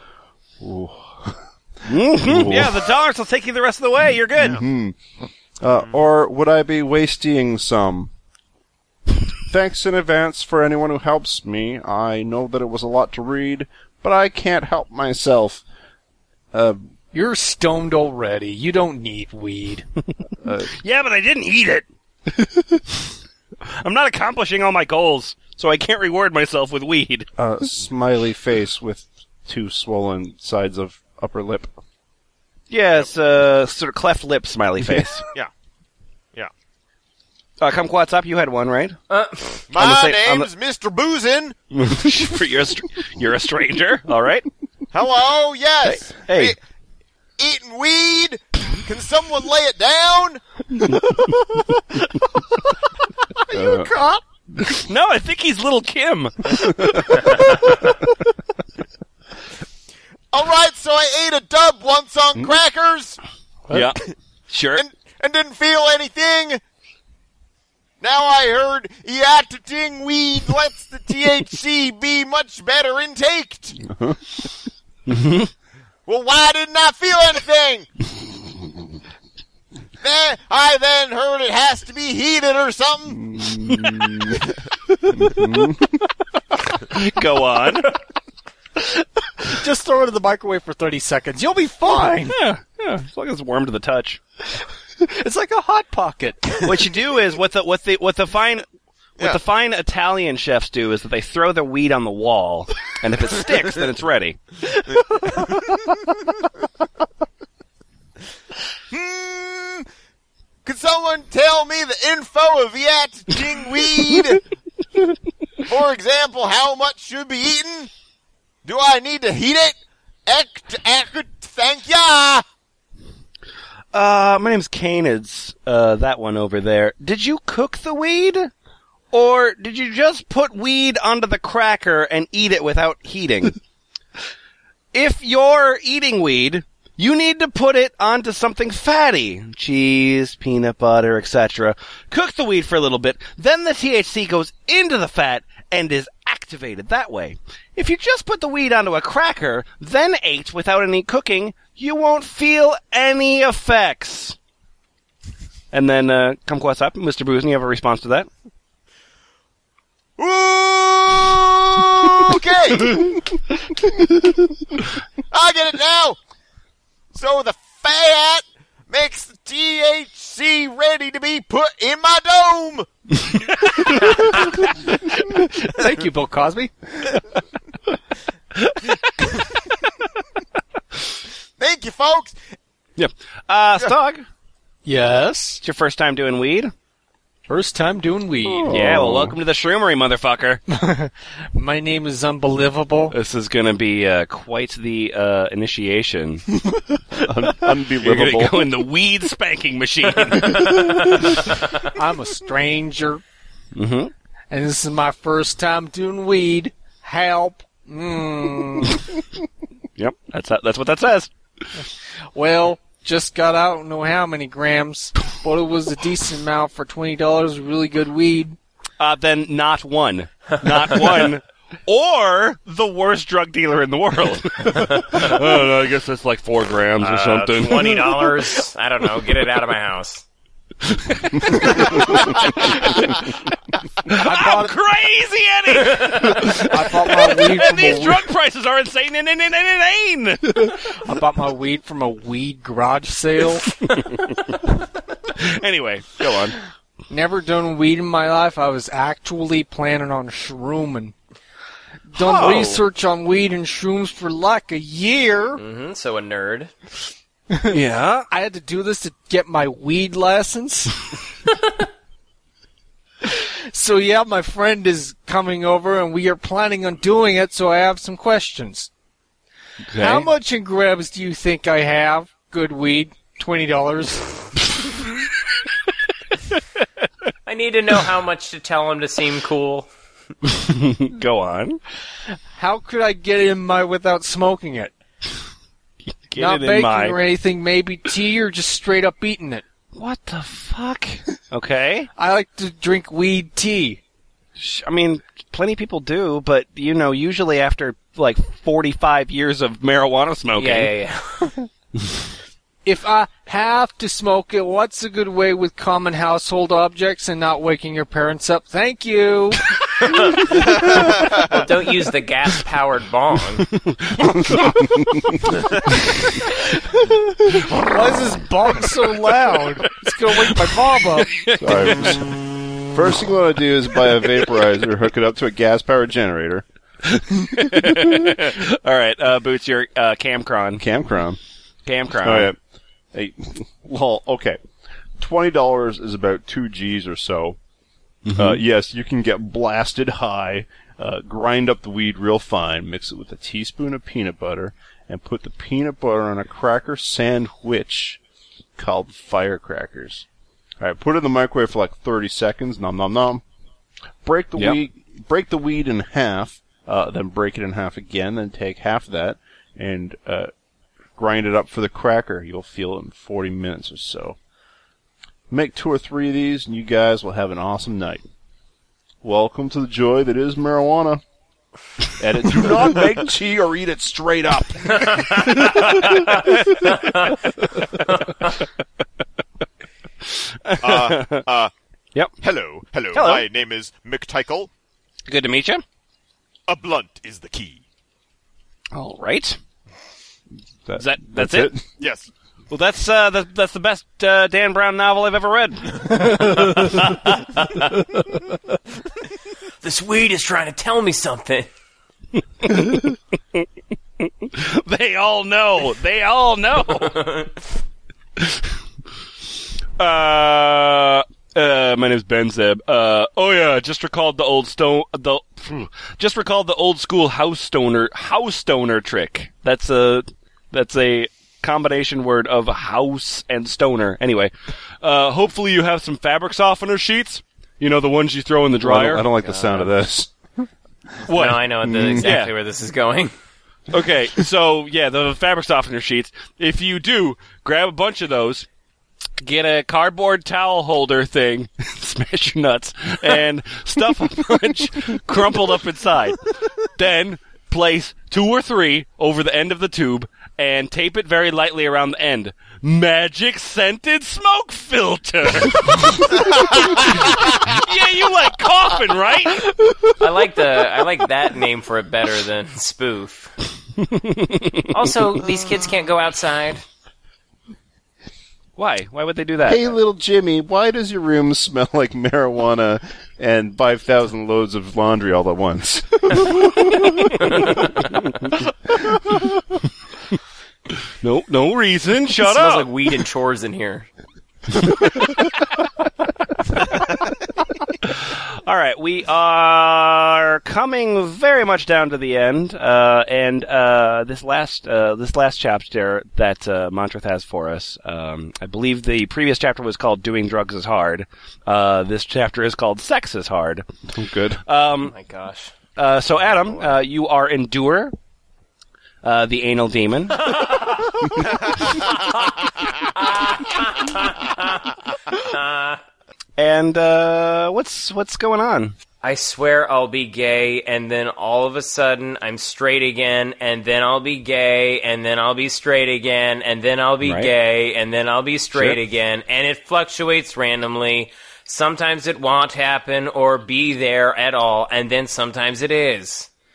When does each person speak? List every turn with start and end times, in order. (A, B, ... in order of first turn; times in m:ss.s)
0:00.6-0:01.4 A
0:01.8-0:04.6 B
0:02.1-0:02.9 A
0:04.4-0:05.0 A
0:05.6-0:08.1 A
0:09.5-0:15.6 A
0:16.5-0:16.9 A
0:17.1-0:19.8 C
0:20.4-0:20.7 A
0:20.7-0:21.9 B
0:23.8-0:27.3 B
0:27.4-0:31.7 A
0:32.7-0:35.2 B
0:37.6-0:39.0 B
0:39.1-0:39.6 D
0:39.7-0:41.6 E
0:39.7-0:40.5 B
0:41.7-0:44.5 B
0:44.9-0:46.6 E
0:45.8-0:46.6 B
0:47.4-0:50.4 E
0:52.3-0:52.7 C
0:53.4-0:54.2 C
0:53.5-0:53.9 A
0:54.7-0:57.3 B
0:56.6-0:58.0 A
1:00.3-1:03.2 E
1:03.7-1:04.8 B
1:04.8-1:06.6 E
1:08.0-1:13.8 E
1:13.8-1:14.2 A
1:15.1-1:15.5 B
1:16.1-1:17.9 E
1:20.0-1:23.3 E
1:23.1-1:26.0 A
1:26.8-1:27.9 B
1:28.8-1:32.4 C
1:32.0-1:34.2 B
1:34.6-1:36.9 C
1:36.6-1:38.6 B
1:39.2-1:44.4 B
1:45.4-1:45.8 E
1:48.9-1:49.9 E
1:50.6-1:54.4 E
1:55.7-1:57.9 E
1:58.6-2:02.4 E
2:03.9-2:08.5 B
2:09.1-2:13.6 B
2:14.9-2:34.4 B
2:35.7-2:38.3 B
2:40.2-2:43.2 E
2:45.3-2:46.2 E
2:47.1-2:52.9 E
2:55.1-2:56.8 C
2:58.6-2:59.3 B
3:01.6-3:02.4 E
3:03.0-3:04.3 B
3:04.8-3:05.6 C
3:05.6-3:06.7 B
3:07.5-3:08.7 C
3:08.5-3:09.4 A
3:08.6-3:10.6 B
3:10.7-3:13.2 C
3:13.1-3:16.4 B
3:17.1-3:18.7 A
3:18.0-3:21.0 B
3:20.9-3:23.2 C
3:23.8-3:24.1 B
3:24.5-3:29.1 C
3:30.0-3:31.3 B
3:32.3-3:38.6 C
3:39.0-3:48.3 B
3:47.0-3:50.2 D
3:50.8-3:53.2 B
3:51.8-3:52.3 D
3:54.0-4:00.9 B
3:54.1-3:54.7 C
3:55.8-3:56.3 D
3:56.4-3:58.2 C
4:01.0-4:04.0 C
4:03.9-4:04.2 B
4:05.4-4:06.6 B
4:07.1-4:11.2 C
4:12.1-4:15.6 C
4:12.2-4:12.8 B
4:15.6-4:16.7 D
4:17.5-4:17.8 C
4:17.7-4:18.3 B
4:18.3-4:21.0 C
4:23.2-4:28.9 C
4:29.9-4:30.3 B
4:30.0-4:34.7 C
4:37.4-4:39.9 D
4:40.4-4:41.8 B
4:42.5-4:44.9 C
4:46.1-4:47.2 B
4:46.4-4:49.6 C
4:50.0-4:52.1 B
4:52.2-4:54.0 C
4:54.6-5:00.9 B
5:00.6-5:01.5 D
5:02.8-5:09.7 C
5:10.0-5:13.7 D
5:10.5-5:11.6 E
5:13.7-5:15.4 B
5:14.2-5:15.4 A
5:16.5-5:21.4 C
5:19.2-5:22.2 B
5:21.6-5:22.3 A
5:22.9-5:26.6 A
5:27.0-5:30.8 B
5:27.8-5:28.3 A
5:30.8-5:31.4 A
5:31.9-5:32.5 B
5:32.2-5:32.6 A
5:33.1-5:34.6 A
5:35.2-5:37.6 A
5:38.2-5:38.6 B
5:38.4-5:48.2 A
5:48.8-5:50.3 A
5:50.8-5:53.4 A
5:54.2-6:00.5 A
6:01.2-6:04.4 A
6:05.5-6:08.2 A
6:09.2-6:11.2 A
6:12.2-6:16.4 A
6:15.0-6:16.2 D
6:17.0-6:17.3 D
6:20.2-6:21.4 B
6:20.8-6:21.7 E
6:22.4-6:24.7 E
6:23.1-6:23.5 B
6:25.3-6:25.8 B
6:26.7-6:27.8 E
6:28.9-6:29.6 B
6:30.9-6:31.8 A
6:31.0-6:31.7 B
6:32.0-6:32.3 E
6:32.7-6:37.2 B
6:37.6-6:38.0 D
6:39.8-6:41.7 D
6:42.6-6:43.2 B
6:44.2-6:47.2 B
6:47.0-6:47.5 D
6:48.4-6:48.7 B
6:50.0-7:09.3 B
7:08.8-7:10.7 A
7:09.4-7:09.9 D
7:11.3-7:11.6 B
7:11.3-7:13.3 D
7:11.8-7:12.2 A
7:12.2-7:12.5 B
7:13.9-7:18.7 B
7:19.4-7:26.4 B
7:27.0-7:39.7 B
7:40.1-7:43.5 D
7:44.0-7:44.9 B
7:44.9-7:46.8 D
7:48.8-7:49.9 B
7:49.6-7:57.6 A
7:57.6-7:58.1 D
7:58.1-7:58.5 B
8:01.2-8:02.9 B
8:02.4-8:04.1 D
8:08.0-8:23.9 B
8:24.1-8:24.6 A
8:24.7-8:25.1 B
8:25.1-8:25.7 D
8:26.0-8:28.1 B
8:29.2-8:30.5 B
8:30.4-8:36.0 D
8:36.6-8:39.0 B
8:39.2-8:56.5 D
8:47.2-8:47.5 B